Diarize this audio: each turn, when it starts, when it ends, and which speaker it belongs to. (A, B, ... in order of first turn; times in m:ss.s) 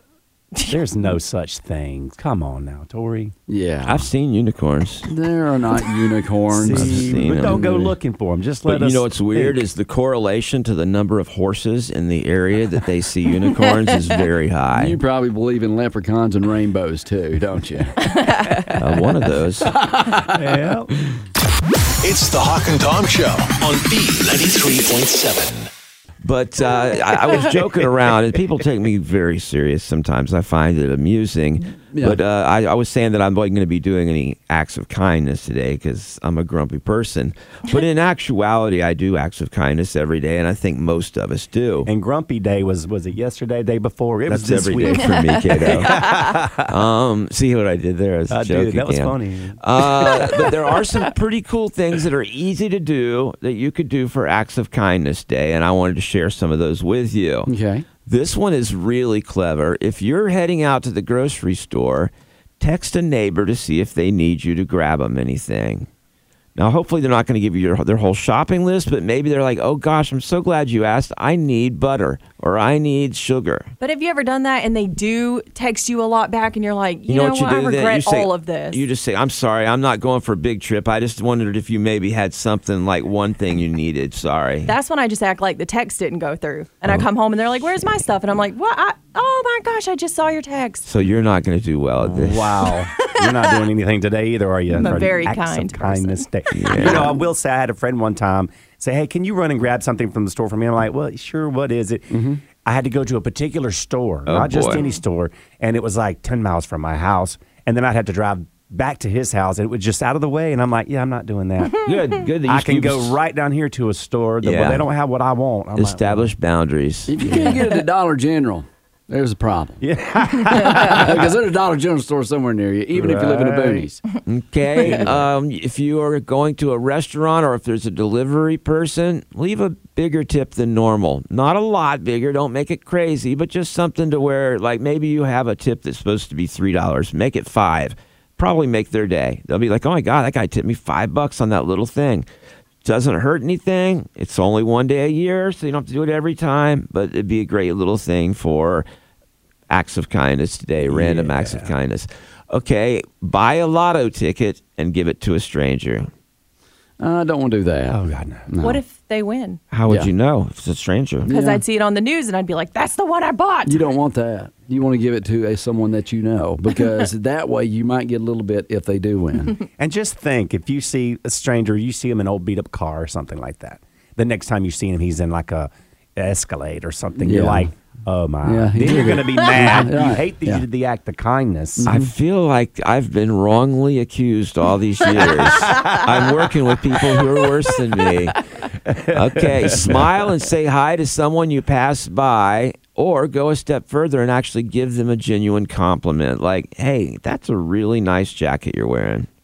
0:00.7-0:03.4 A
0:03.5-0:04.1 B
0:03.8-0:05.1 C
0:05.1-0:07.9 B
0:06.5-0:09.6 A
0:06.7-0:07.7 C
0:08.7-0:15.0 C
0:14.8-0:18.1 B
0:18.1-0:18.7 D
0:18.8-0:19.7 C
0:19.6-0:21.2 B
0:20.3-0:20.9 A
0:22.0-0:25.7 E
0:26.2-0:41.9 C
0:31.7-0:32.2 B
0:41.8-0:46.7 A
0:44.3-0:46.0 C
0:46.6-0:57.5 C
0:48.3-0:50.5 A
0:57.5-0:57.9 B
0:58.1-1:05.9 C
1:06.6-1:13.7 C
1:13.8-1:18.8 D
1:17.1-1:24.7 C
1:24.7-1:30.8 D
1:30.8-1:32.7 C
1:32.0-1:56.3 A
1:34.7-1:36.9 D
1:36.5-1:37.1 C
1:44.3-1:44.8 C
1:44.7-1:45.0 D
1:51.8-1:53.2 C
1:54.4-1:54.8 C
1:55.8-1:57.4 C
1:57.1-1:59.8 B
1:59.8-2:01.3 A
2:00.5-2:04.0 B
2:00.6-2:00.9 D
2:02.9-2:03.9 A
2:04.3-2:22.2 C
2:04.8-2:05.3 A
2:22.8-2:28.8 C
2:29.7-2:36.1 C
2:30.8-2:31.7 A
2:37.0-2:38.0 B
2:37.9-2:38.5 A
2:38.5-2:38.8 B
2:38.6-2:39.6 D
2:39.7-2:41.3 C
2:41.3-2:41.6 B
2:41.3-2:43.8 D
2:43.7-2:49.6 B
2:49.8-3:01.9 A
2:57.2-2:57.7 B
2:58.4-3:00.6 B
3:01.8-3:02.1 B
3:01.9-3:08.4 C
3:05.6-3:06.0 D
3:08.9-3:10.3 A
3:09.1-3:19.3 C